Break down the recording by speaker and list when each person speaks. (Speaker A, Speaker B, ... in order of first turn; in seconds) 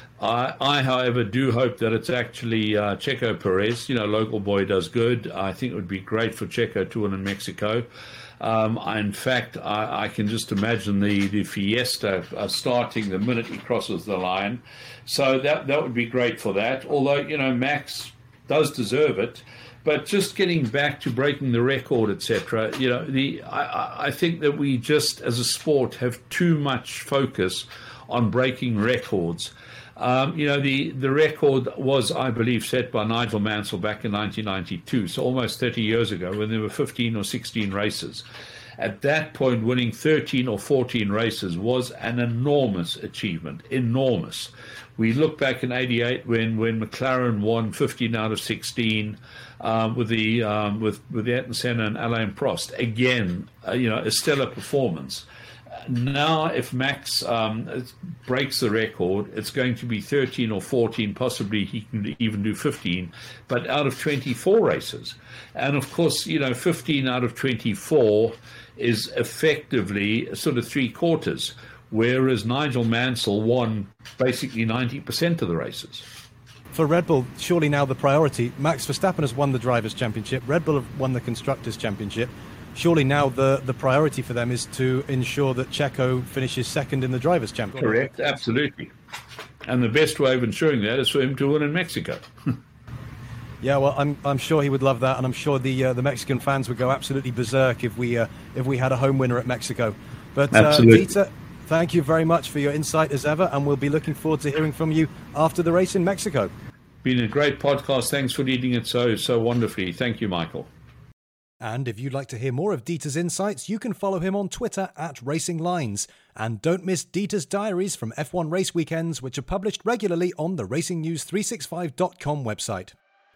Speaker A: 0.2-7.9, 8.4-38.2, 38.8-55.3, 55.8-76.1, 87.8-88.9, 89.7-92.5, 100.5-101.1, 107.0-110.7
Speaker B: 76.7-88.0, 93.6-106.5, 111.6-123.0